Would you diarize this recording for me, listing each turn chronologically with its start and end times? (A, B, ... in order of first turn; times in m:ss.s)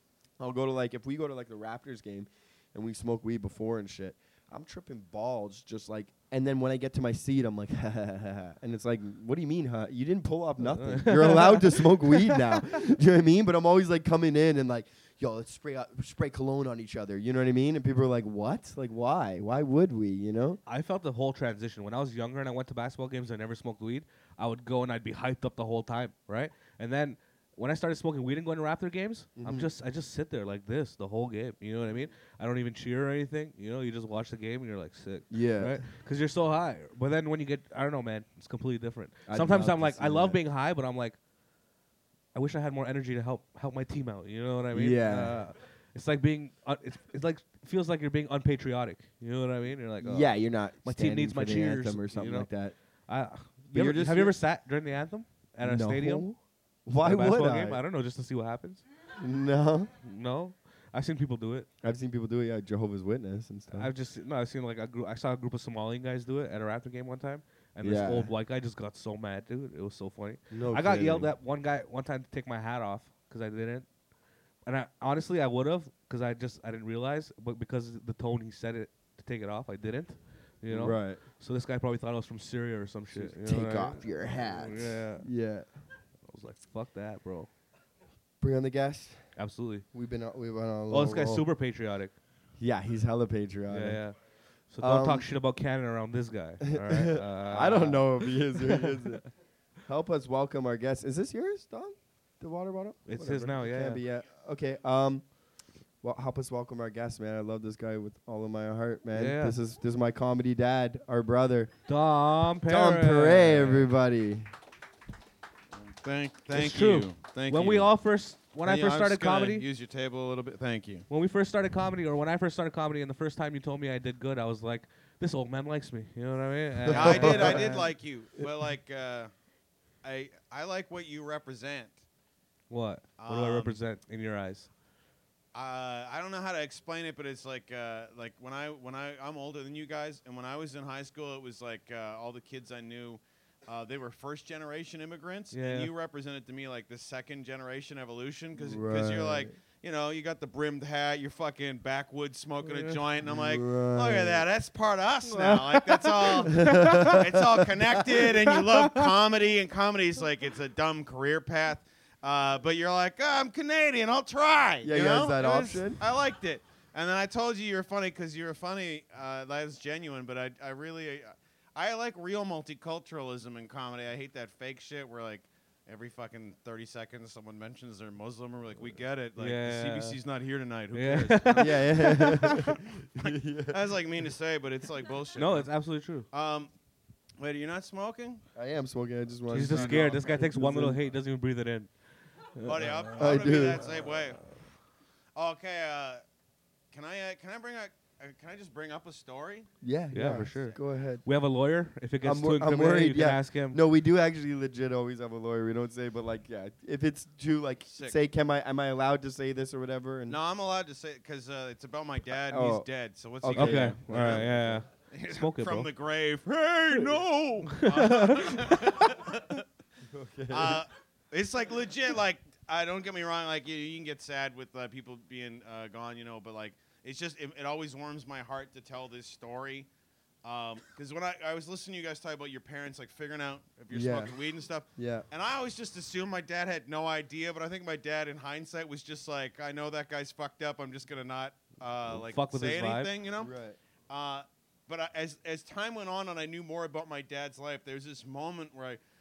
0:00.4-0:20.6 A
0:10.6-0:12.6 B
0:20.6-0:41.2 B
0:29.4-0:29.7 A
0:35.3-0:35.8 A
0:39.3-0:40.4 A
0:42.3-0:52.5 B
0:44.7-0:45.4 A
0:50.0-0:52.7 A
0:53.1-0:56.3 B
0:53.7-0:54.4 A
0:55.6-0:57.8 A
0:57.0-0:58.8 B
0:59.2-0:59.9 A
1:00.0-1:01.7 B
1:01.8-1:03.9 A
1:03.7-1:13.9 B
1:07.8-1:08.3 A
1:10.5-1:11.3 A
1:14.6-1:25.3 B
1:20.7-1:21.2 A
1:23.1-1:25.7 A
1:26.2-1:27.5 B
1:28.4-1:29.2 A
1:29.4-1:29.8 B
1:29.9-1:31.4 A
1:30.9-1:32.2 B
1:32.6-1:34.0 A
1:33.7-1:34.1 B
1:34.7-1:39.0 B
1:34.8-1:35.3 A
1:36.6-1:39.2 A
1:39.9-1:45.2 A
1:43.0-1:44.0 B
1:46.0-1:51.7 A
1:49.1-1:49.6 B
1:51.9-1:53.9 B
1:52.7-1:54.5 A
1:55.8-1:57.9 C
1:56.5-1:59.6 B
1:58.6-2:01.0 C
2:01.1-2:07.8 B
2:06.8-2:07.8 A
2:06.9-2:09.3 C
2:10.0-2:12.0 C
2:12.7-2:14.7 B
2:13.2-2:13.8 C
2:15.5-3:02.6 C
2:25.5-2:25.9 B
2:28.6-2:29.5 A
2:32.7-2:33.0 B
2:33.2-2:34.4 A
2:35.3-2:37.2 B
2:36.5-2:38.3 A
2:38.4-2:39.0 B
2:44.8-2:46.0 A
2:59.4-3:00.2 B
3:00.9-3:02.7 B
3:01.6-3:03.8 A
3:03.2-3:05.7 C
3:05.4-3:06.2 B
3:06.3-3:06.7 C
3:07.4-3:08.4 C
3:08.6-3:11.0 A
3:09.5-3:11.9 B
3:09.7-3:10.2 C
3:12.6-3:13.3 B
3:12.6-3:14.4 C
3:13.2-3:13.8 A
3:15.4-3:16.2 C
3:16.9-3:19.7 C
3:19.8-3:21.2 A
3:20.1-3:23.8 B
3:22.2-3:30.4 A
3:27.8-3:28.2 C
3:30.3-3:39.6 C
3:32.5-3:32.8 A
3:33.4-3:34.8 A
3:33.5-3:35.9 B
3:37.7-3:38.5 B
3:40.1-3:40.8 A
3:40.5-3:49.9 C
3:50.4-4:03.5 C
3:53.9-3:54.3 A
3:55.0-3:55.2 A
4:02.2-4:03.1 B
4:03.4-4:03.8 A
4:04.1-4:09.0 C